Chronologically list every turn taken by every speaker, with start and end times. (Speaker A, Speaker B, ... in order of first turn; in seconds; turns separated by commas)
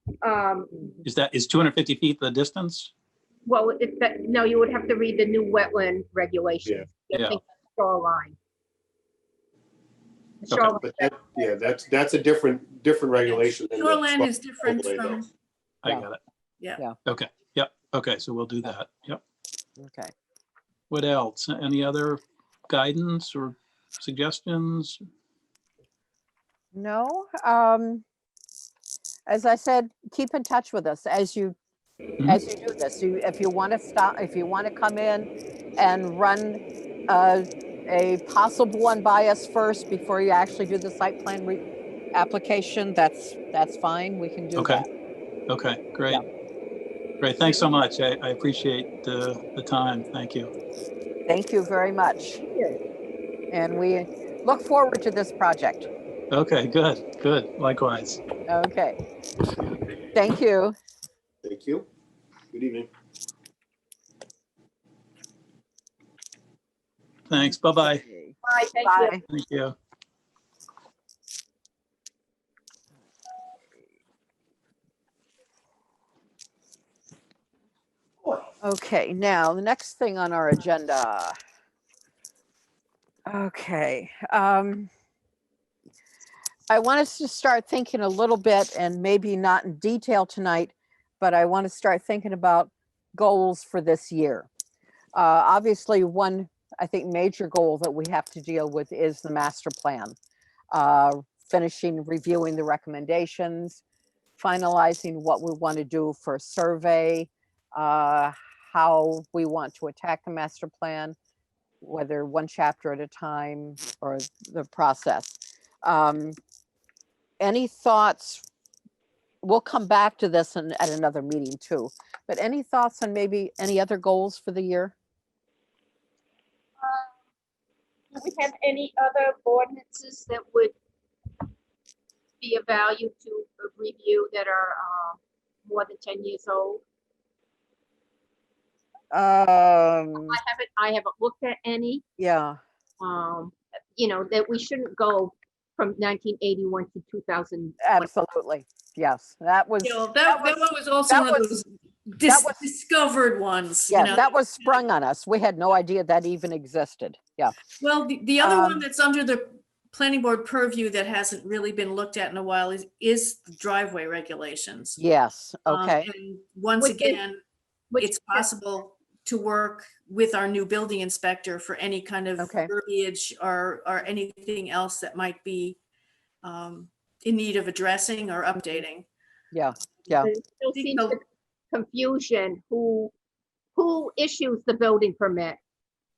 Speaker A: 0.2-1.0, Speaker B: 1.0-2.9, Speaker A: 3.5-8.4, Speaker B: 7.1-7.4, Speaker A: 10.4-11.6, Speaker C: 10.8-15.2, Speaker D: 13.3-15.3, Speaker B: 15.8-16.2, Speaker B: 17.1-19.2, Speaker E: 19.8-20.1, Speaker B: 20.9-25.0, Speaker E: 26.7-28.0, Speaker E: 29.3-31.6, Speaker E: 32.2-44.9, Speaker B: 44.6-44.8, Speaker B: 45.5-46.2, Speaker B: 47.2-50.5, Speaker E: 51.3-52.4, Speaker A: 52.5-52.8, Speaker E: 53.5-55.9, Speaker B: 56.3-58.2, Speaker E: 58.5-59.0, Speaker E: 60.1-60.8, Speaker C: 61.4-61.9, Speaker C: 62.5-62.9, Speaker B: 67.3-68.0, Speaker E: 67.4-69.2, Speaker A: 68.5-69.2, Speaker B: 69.3-69.8, Speaker E: 78.6-81.4, Speaker E: 83.3-84.9, Speaker E: 86.7-94.5, Speaker E: 95.2-100.2, Speaker E: 100.7-103.8, Speaker E: 104.4-111.2, Speaker E: 111.8-116.4, Speaker E: 117.4-118.5, Speaker E: 119.4-125.0, Speaker A: 126.8-127.1, Speaker A: 128.1-130.7, Speaker A: 132.4-136.8, Speaker E: 139.1-140.4, Speaker A: 140.2-142.0, Speaker E: 142.2-142.6, Speaker A: 143.0-148.1, Speaker E: 147.8-151.5, Speaker D: 149.8-154.7, Speaker E: 152.3-152.6, Speaker E: 153.9-157.6, Speaker D: 157.8-165.0, Speaker E: 158.4-158.8, Speaker E: 165.0-166.1, Speaker D: 165.7-167.4, Speaker A: 166.8-167.2, Speaker A: 167.9-168.5, Speaker D: 168.0-175.8, Speaker E: 172.4-172.7, Speaker D: 176.4-179.1, Speaker E: 179.5-180.3, Speaker A: 180.2-181.2, Speaker D: 180.7-181.2, Speaker A: 181.7-183.1, Speaker A: 183.8-185.6